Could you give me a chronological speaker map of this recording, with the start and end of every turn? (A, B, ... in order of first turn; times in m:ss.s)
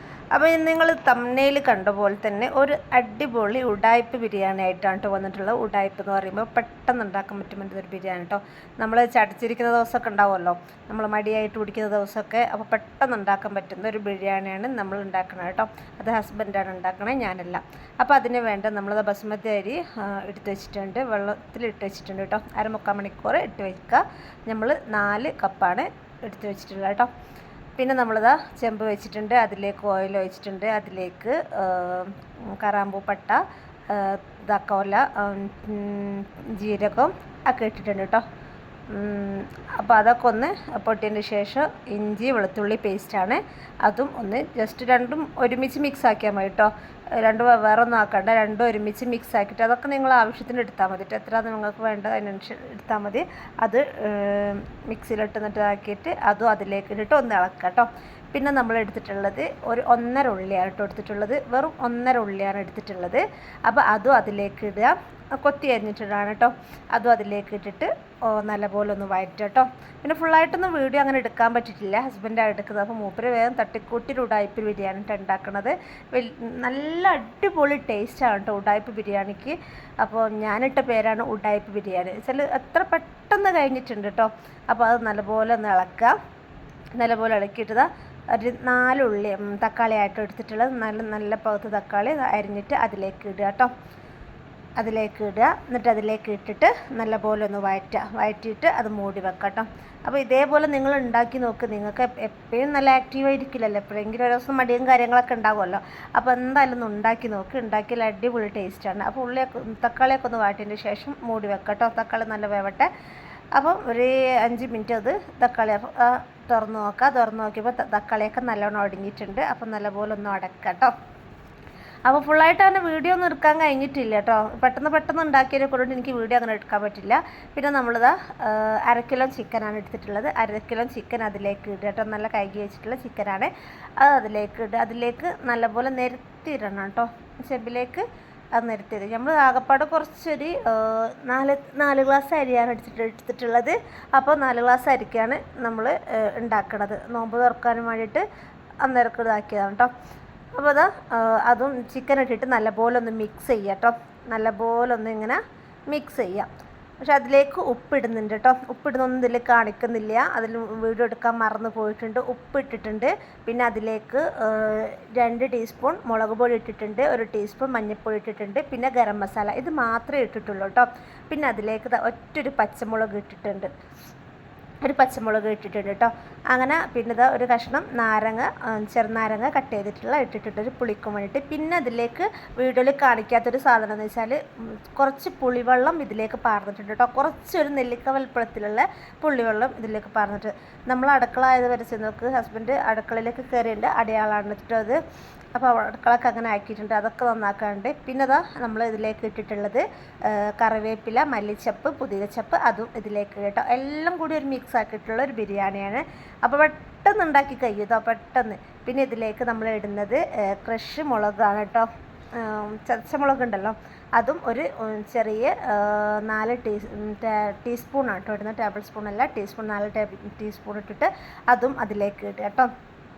0:00.4-0:27.1 A
0:27.8-0:38.2 A
0:38.9-1:26.2 A
1:27.0-1:33.7 A
1:34.8-1:52.9 A
1:53.6-2:00.9 A
2:02.1-2:28.2 A
2:28.8-2:29.9 A
2:30.6-2:53.7 A
2:54.8-3:04.4 A
3:04.9-3:15.0 A
3:15.6-3:42.7 A